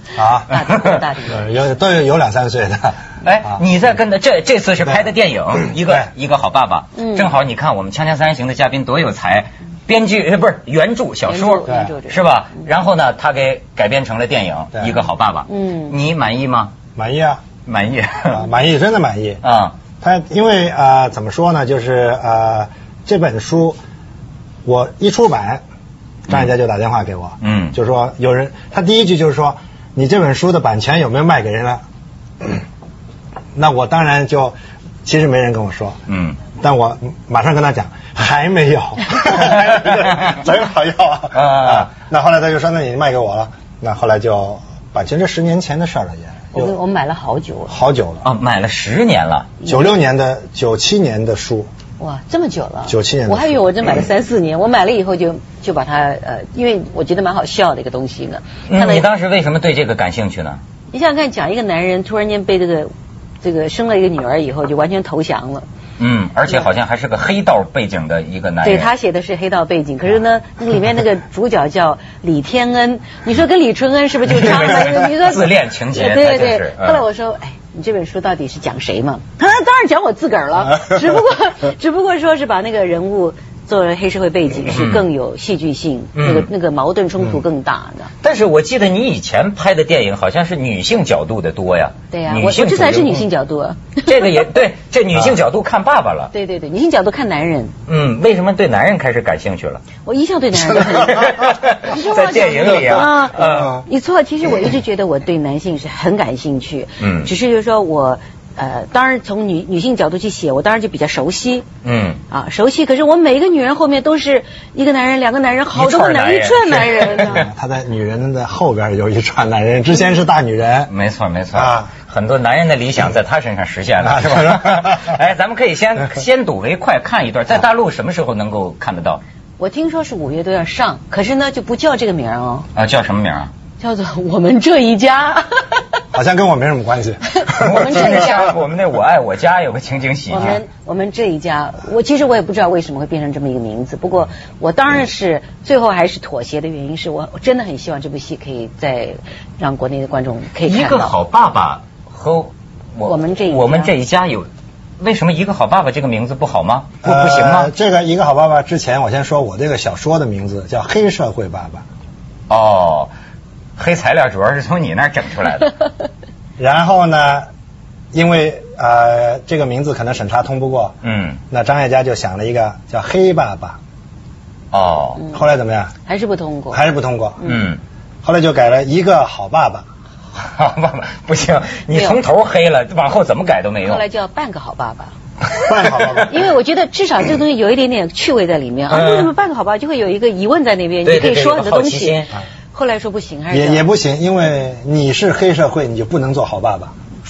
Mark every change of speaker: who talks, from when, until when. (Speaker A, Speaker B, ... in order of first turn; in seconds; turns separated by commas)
Speaker A: 0.1-0.5, Speaker B: 0.5-1.4, Speaker C: 0.5-1.0, Speaker A: 1.2-3.6, Speaker C: 3.2-16.7, Speaker A: 5.8-6.1, Speaker B: 7.0-7.3, Speaker B: 11.3-12.2, Speaker B: 15.5-15.9, Speaker A: 16.9-17.5, Speaker C: 17.6-18.4, Speaker A: 18.3-19.4, Speaker C: 19.4-19.8, Speaker A: 20.0-23.8, Speaker A: 24.6-25.6, Speaker A: 26.3-31.8, Speaker C: 27.4-27.7, Speaker A: 33.5-36.0, Speaker C: 36.1-36.4, Speaker A: 36.6-46.7, Speaker C: 41.3-41.9, Speaker B: 46.5-47.7, Speaker A: 47.7-48.2, Speaker C: 48.2-49.5, Speaker B: 49.6-49.9, Speaker A: 49.6-51.7, Speaker B: 52.0-59.0, Speaker A: 52.9-53.6, Speaker C: 58.7-60.6, Speaker B: 60.9-62.9, Speaker B: 63.4-65.7, Speaker C: 66.0-68.9, Speaker B: 68.6-88.1, Speaker C: 74.3-77.0, Speaker C: 84.7-85.0, Speaker C: 86.1-86.5, Speaker C: 88.2-93.2, Speaker B: 92.1-94.4, Speaker C: 94.0-96.3, Speaker B: 96.3-97.7, Speaker C: 97.9-99.8, Speaker B: 100.0-111.7, Speaker C: 100.9-103.8, Speaker A: 102.7-103.8, Speaker C: 107.0-107.3, Speaker C: 111.8-112.2, Speaker B: 112.3-117.5, Speaker C: 115.7-117.4, Speaker A: 117.2-120.9, Speaker C: 120.9-129.2, Speaker A: 121.5-121.9, Speaker A: 124.0-125.1, Speaker B: 129.6-132.7, Speaker C: 132.8-133.5, Speaker B: 133.8-135.7, Speaker A: 136.1-138.3, Speaker B: 137.4-138.6, Speaker C: 137.5-140.6, Speaker B: 140.3-151.1, Speaker C: 150.6-157.7, Speaker B: 153.0-153.9, Speaker A: 157.0-161.8, Speaker C: 162.5-163.1, Speaker C: 163.8-165.8, Speaker A: 166.6-167.5, Speaker A: 168.1-171.0, Speaker C: 171.0-171.4, Speaker A: 171.5-173.8, Speaker C: 174.7-175.2, Speaker A: 175.3-175.9, Speaker B: 176.0-176.8, Speaker A: 176.7-177.4, Speaker B: 177.4-177.7, Speaker C: 177.4-177.8, Speaker A: 178.2-179.8, Speaker C: 180.3-184.0, Speaker B: 181.9-182.2, Speaker B: 183.8-185.1, Speaker A: 185.5-186.3, Speaker B: 186.2-193.8, Speaker C: 188.9-189.3, Speaker C: 191.0-192.3, Speaker A: 193.5-196.9